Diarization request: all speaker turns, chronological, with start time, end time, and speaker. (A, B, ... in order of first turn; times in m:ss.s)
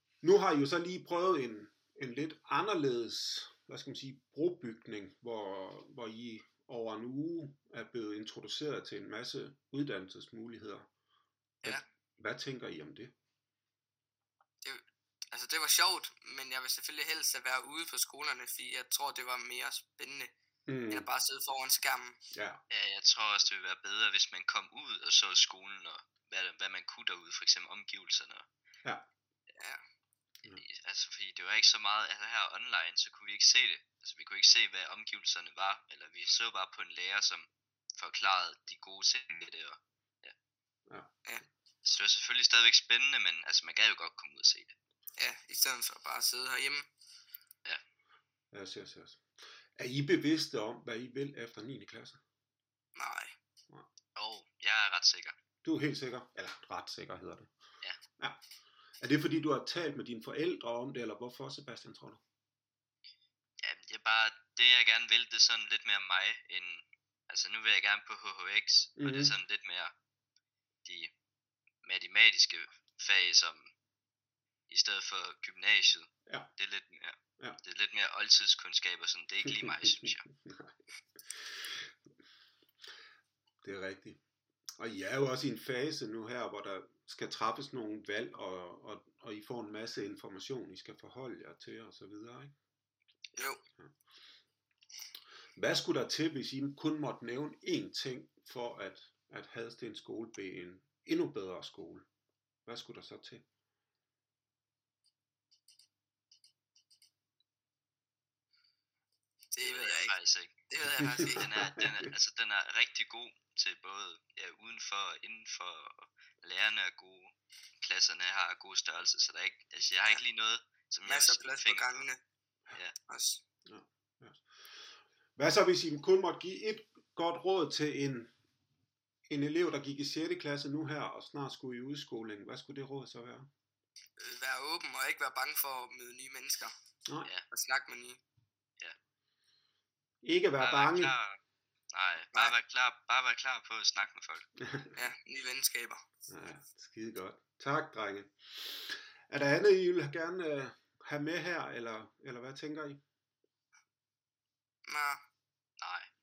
0:00.2-0:10.9 A
0:11.6-0:13.1 A
0:14.6-0:20.3 B
0:20.7-0:21.1 A
0:20.9-0:22.2 B
0:22.3-0:22.6 A
0:22.7-0:28.5 C
0:30.5-0:40.3 C
0:41.8-0:44.7 C
0:45.2-0:46.9 B
0:48.5-0:49.2 A
0:49.8-0:52.2 A
0:53.0-0:53.3 B
0:54.2-0:55.4 C
0:55.6-0:57.5 A
0:59.0-1:02.2 A
1:03.6-1:09.9 C
1:09.0-1:09.4 A
1:10.8-1:11.1 C
1:11.8-1:13.7 C
1:14.7-1:20.3 C
1:19.6-1:20.7 A
1:23.6-1:24.2 A
1:24.8-1:32.5 A
1:35.6-1:42.1 A
1:42.7-1:43.4 A
1:49.5-1:50.2 B
1:49.6-1:50.5 C
1:50.7-1:51.5 B
1:51.0-1:51.8 A
1:51.2-2:02.1 C
2:01.1-2:02.2 B
2:03.1-2:03.4 B
2:03.7-2:04.4 A
2:05.4-2:08.3 A
2:09.3-2:13.5 A
2:14.2-2:16.7 B
2:17.5-2:18.2 B
2:20.2-2:21.2 A
2:20.6-2:21.4 C
2:21.9-2:24.5 C
2:24.6-2:25.0 A
2:25.0-2:26.0 B
2:26.3-2:33.0 A
2:34.9-2:35.2 B
2:35.8-2:36.1 C